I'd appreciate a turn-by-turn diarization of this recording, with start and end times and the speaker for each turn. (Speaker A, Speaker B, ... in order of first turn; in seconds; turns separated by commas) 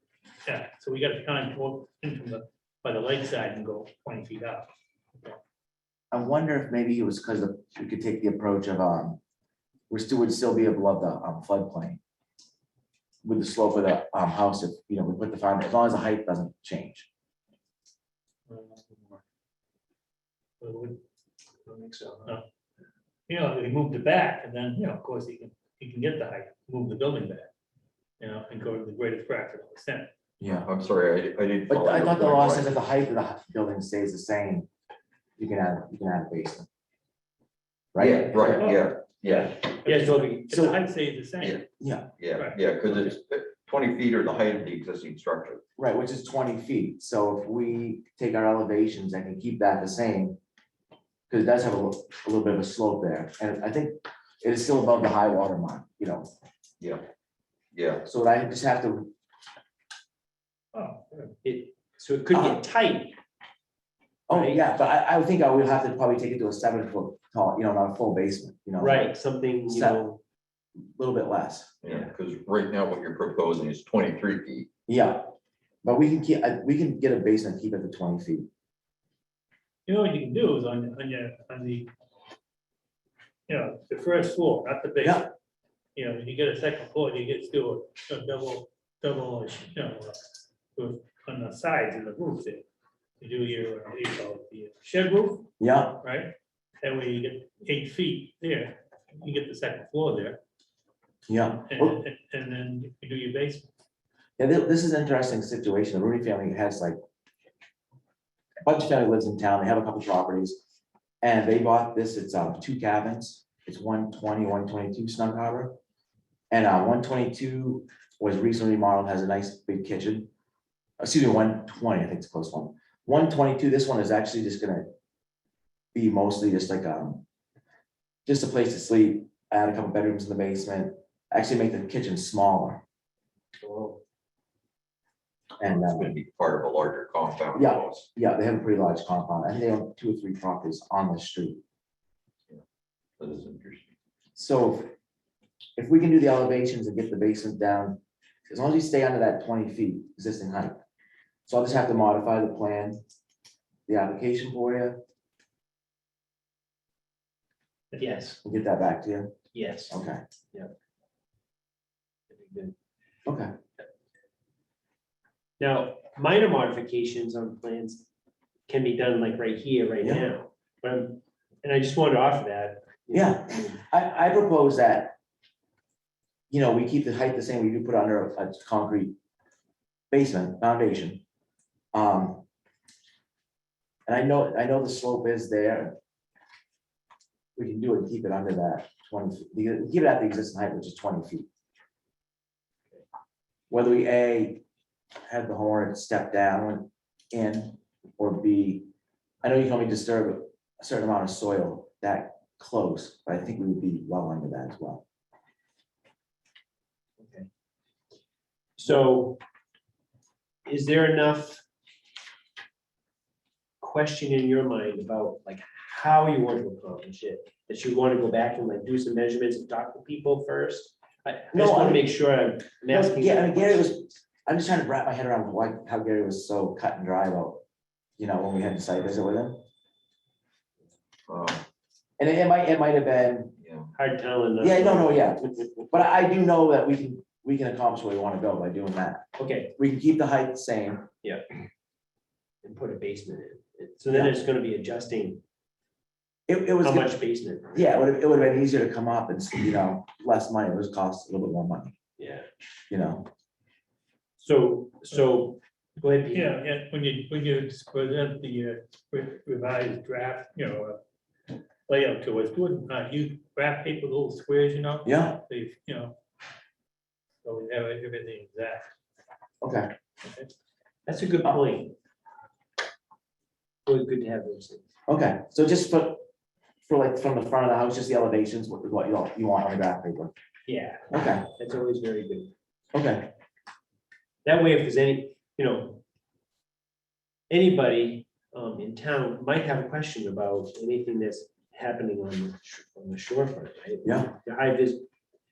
Speaker A: 0.5-4.7, Speaker B: 6.1-9.2, Speaker B: 9.9-12.0, Speaker B: 13.2-17.1, Speaker A: 18.5-19.2, Speaker A: 20.6-21.0, Speaker C: 21.6-22.3, Speaker A: 23.3-27.5, Speaker A: 28.2-30.1, Speaker B: 30.4-30.7, Speaker D: 30.5-32.7, Speaker B: 31.7-34.7, Speaker B: 35.4-36.7, Speaker B: 37.9-38.8, Speaker D: 38.0-39.6, Speaker A: 38.5-41.6, Speaker C: 39.8-40.5, Speaker B: 40.5-40.8, Speaker B: 41.8-42.1, Speaker D: 42.2-45.6, Speaker A: 42.4-43.1, Speaker B: 45.8-50.4, Speaker B: 51.3-56.3, Speaker D: 56.8-57.0, Speaker D: 57.7-58.0, Speaker B: 58.0-59.1, Speaker A: 60.7-61.3, Speaker C: 61.4-63.2, Speaker B: 62.3-62.6, Speaker B: 64.3-69.1, Speaker C: 64.3-64.6, Speaker C: 68.8-70.2, Speaker B: 69.7-70.0, Speaker B: 70.8-71.7, Speaker D: 71.8-74.7, Speaker C: 71.9-72.1, Speaker B: 74.9-75.3, Speaker B: 75.8-78.5, Speaker A: 79.8-81.9, Speaker A: 83.5-85.3, Speaker B: 85.0-85.3, Speaker A: 86.0-92.7, Speaker A: 93.2-100.4, Speaker B: 95.6-96.0, Speaker B: 101.3-102.0, Speaker A: 101.6-103.7, Speaker B: 104.4-107.0, Speaker B: 108.6-110.6, Speaker B: 111.2-115.8, Speaker B: 116.5-120.3, Speaker B: 121.0-124.9, Speaker B: 125.9-127.2, Speaker B: 128.2-132.8, Speaker C: 133.6-134.0, Speaker B: 135.6-136.1, Speaker D: 135.6-138.1, Speaker B: 137.5-141.6, Speaker D: 143.2-143.9, Speaker B: 144.3-144.9, Speaker B: 145.8-150.8, Speaker B: 151.5-153.0, Speaker B: 153.9-155.0, Speaker C: 158.0-158.4, Speaker B: 158.4-159.3, Speaker C: 159.5-160.0, Speaker B: 159.9-160.2, Speaker C: 162.3-162.7, Speaker B: 163.2-163.5, Speaker C: 165.6-168.1, Speaker C: 168.7-173.8, Speaker B: 170.0-170.3, Speaker B: 173.1-175.2, Speaker B: 176.5-179.1, Speaker B: 180.1-181.2, Speaker B: 181.9-182.4, Speaker B: 184.1-185.9, Speaker B: 187.6-191.5, Speaker B: 193.7-194.6, Speaker B: 195.2-198.9, Speaker B: 199.4-205.0, Speaker C: 207.2-207.5, Speaker C: 208.8-209.4, Speaker C: 210.6-211.6, Speaker C: 213.8-223.8, Speaker B: 221.5-222.1, Speaker B: 222.9-227.6, Speaker B: 228.2-229.6, Speaker D: 231.3-231.6, Speaker B: 232.2-233.5, Speaker D: 233.6-233.9, Speaker C: 233.9-235.7, Speaker B: 234.6-241.1, Speaker C: 239.4-239.7, Speaker C: 241.2-241.5, Speaker C: 242.6-245.4, Speaker B: 244.1-244.3, Speaker B: 246.5-247.1, Speaker C: 246.8-247.9, Speaker B: 247.7-251.9, Speaker C: 252.2-252.5, Speaker B: 252.9-253.3, Speaker C: 254.4-256.6, Speaker A: 256.3-261.0, Speaker A: 261.9-266.2, Speaker B: 265.0-265.4, Speaker A: 267.4-268.9, Speaker B: 269.6-269.9, Speaker C: 271.1-271.9, Speaker C: 273.8-274.9, Speaker B: 275.1-276.2, Speaker B: 276.8-280.3, Speaker C: 280.6-282.5, Speaker B: 281.1-281.4, Speaker B: 282.9-283.3, Speaker C: 284.4-286.0, Speaker C: 287.5-295.1, Speaker B: 294.0-294.3